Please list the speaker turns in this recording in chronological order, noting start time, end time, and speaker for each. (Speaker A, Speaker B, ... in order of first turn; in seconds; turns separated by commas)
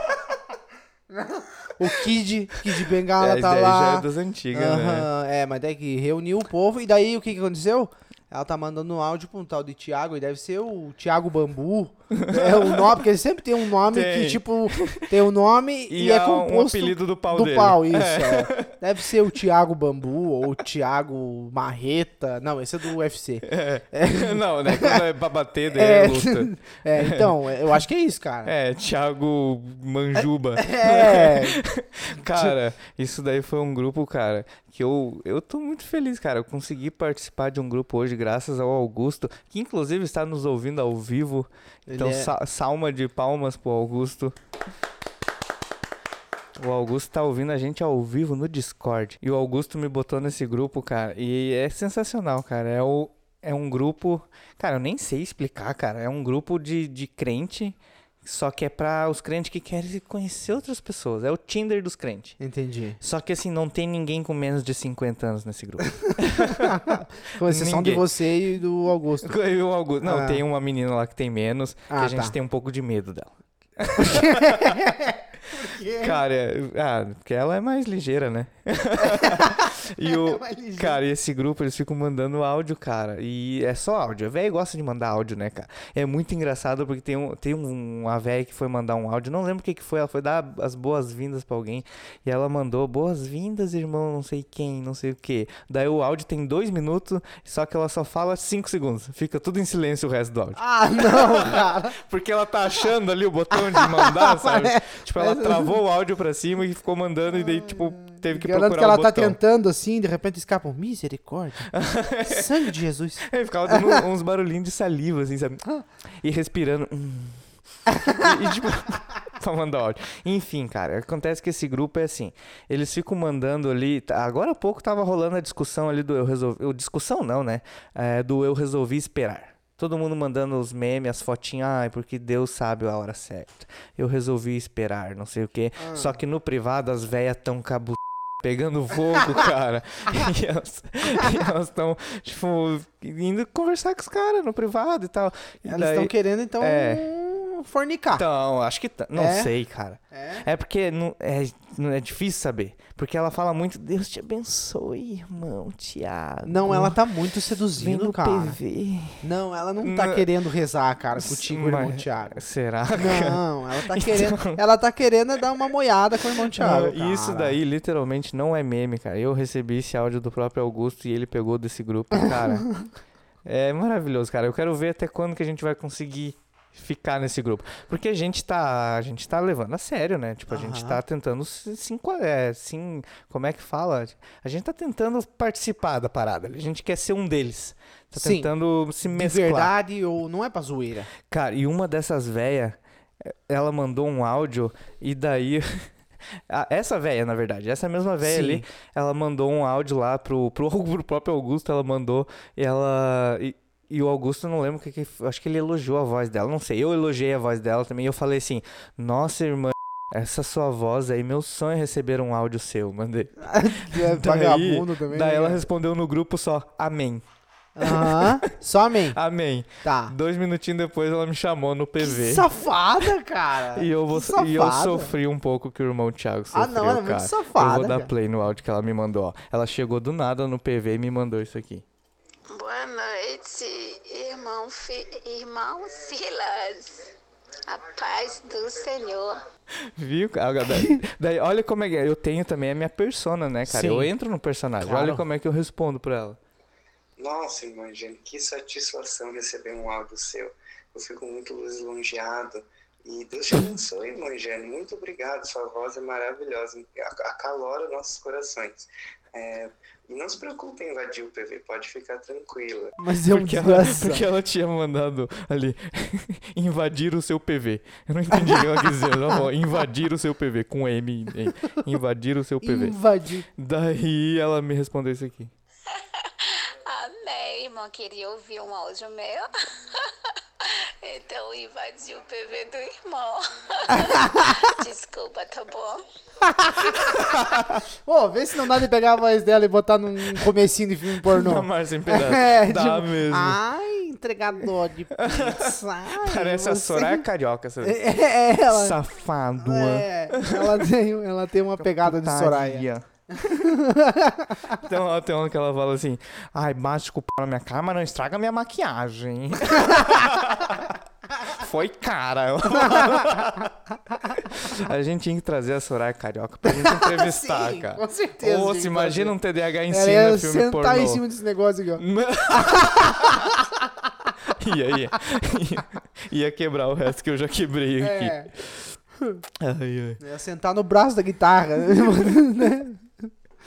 Speaker A: 1.1-25.0, Speaker B: 2.6-5.1, Speaker B: 12.1-13.0, Speaker B: 13.8-15.1, Speaker B: 15.9-18.8, Speaker B: 23.4-27.3, Speaker A: 25.7-28.5, Speaker B: 28.4-44.4, Speaker A: 30.2-31.6, Speaker A: 41.9-42.3, Speaker B: 46.5-62.4, Speaker A: 62.4-63.0, Speaker B: 63.0-68.1, Speaker A: 66.4-69.3, Speaker B: 69.2-75.1, Speaker A: 70.0-70.4, Speaker A: 71.9-72.3, Speaker A: 74.0-76.2, Speaker B: 76.0-109.4, Speaker A: 79.0-81.0, Speaker A: 100.5-102.0, Speaker A: 103.5-105.8, Speaker A: 107.5-114.0, Speaker B: 111.7-147.1, Speaker A: 118.0-118.3, Speaker A: 135.8-136.1, Speaker A: 145.7-148.2, Speaker B: 148.2-157.0, Speaker A: 149.1-149.5, Speaker A: 150.1-150.5, Speaker A: 156.4-158.6, Speaker B: 157.8-159.2, Speaker A: 159.2-162.4, Speaker B: 159.8-160.3, Speaker B: 161.2-164.6, Speaker A: 163.0-167.6, Speaker B: 166.4-172.7, Speaker B: 173.4-189.7, Speaker A: 180.5-181.0, Speaker A: 188.1-188.5, Speaker A: 189.1-191.1, Speaker B: 191.3-217.2, Speaker A: 198.2-198.7, Speaker A: 213.4-215.6, Speaker A: 217.8-219.2, Speaker B: 217.8-218.5, Speaker B: 219.1-222.5, Speaker A: 219.8-220.2, Speaker A: 222.0-225.2, Speaker B: 223.7-231.8, Speaker A: 226.5-228.1, Speaker C: 232.5-237.1, Speaker C: 237.7-239.4, Speaker B: 239.9-246.4, Speaker A: 243.7-244.1, Speaker A: 244.8-245.2, Speaker D: 247.2-263.0, Speaker A: 263.0-264.3, Speaker B: 263.2-273.0, Speaker A: 268.3-269.5, Speaker A: 272.6-273.5, Speaker B: 273.6-275.5, Speaker C: 275.9-286.0, Speaker A: 283.9-284.7, Speaker A: 286.4-297.2, Speaker B: 287.1-287.9, Speaker B: 291.2-293.6, Speaker B: 295.1-298.1, Speaker A: 297.8-299.0, Speaker B: 298.6-300.9, Speaker A: 299.6-304.8, Speaker B: 301.9-303.7, Speaker B: 304.7-313.7, Speaker A: 312.6-313.7, Speaker B: 314.2-321.2, Speaker A: 316.7-319.4, Speaker A: 319.9-324.3, Speaker B: 322.0-323.5, Speaker B: 324.4-329.0, Speaker A: 328.0-328.5, Speaker B: 329.6-330.2, Speaker A: 330.2-333.3